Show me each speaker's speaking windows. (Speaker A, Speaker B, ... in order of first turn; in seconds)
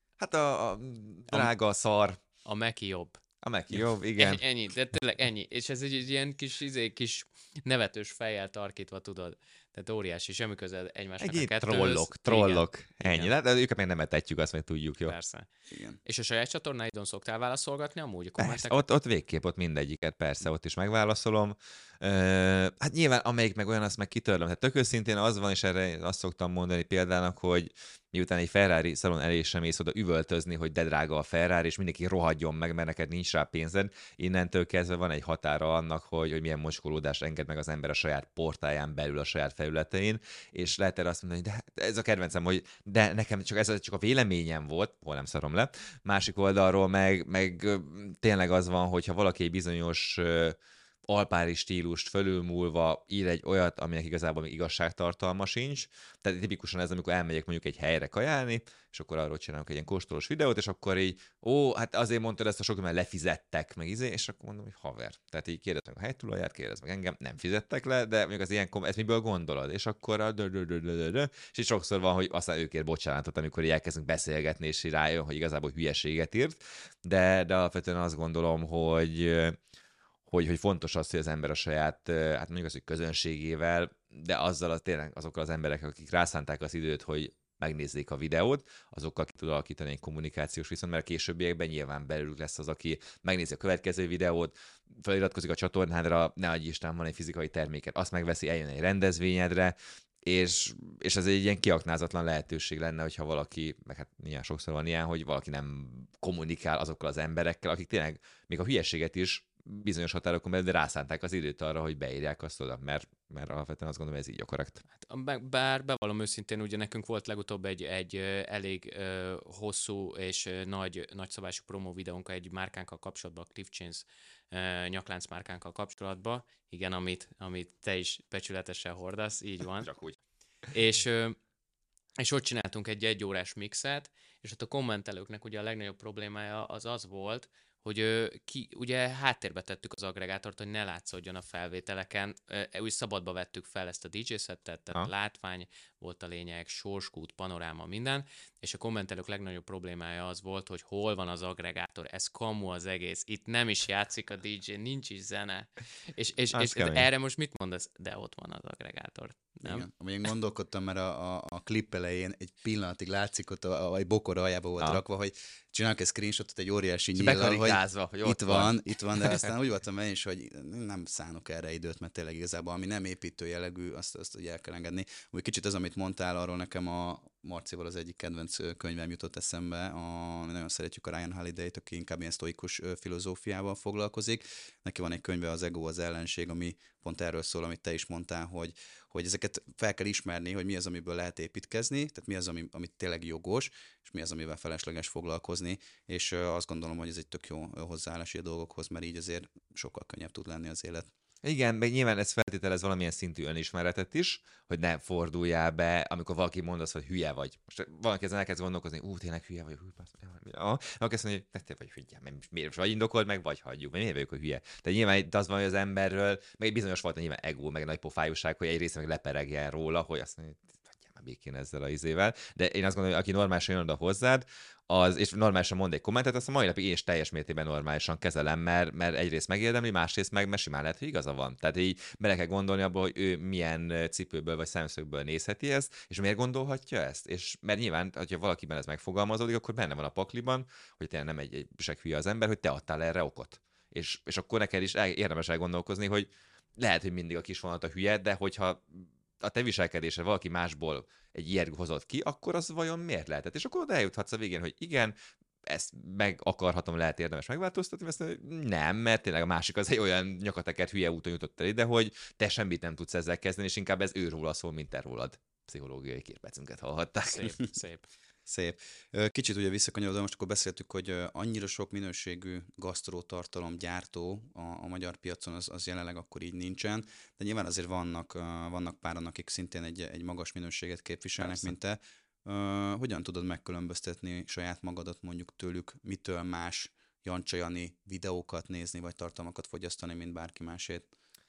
Speaker A: 0.2-2.2, 3.4-4.4, 11.2-15.2, 18.4-79.6, 80.3-114.8, 129.8-130.2, 156.5-157.1, 167.2-169.5, 201.4-255.2, 255.7-267.5, 281.4-281.7
Speaker B: 2.5-3.2, 3.7-13.3, 15.1-15.5, 16.1-18.8, 115.0-129.9, 130.7-131.4, 132.2-159.9, 267.2-268.1
Speaker C: 15.7-16.0, 159.6-201.1, 268.5-291.1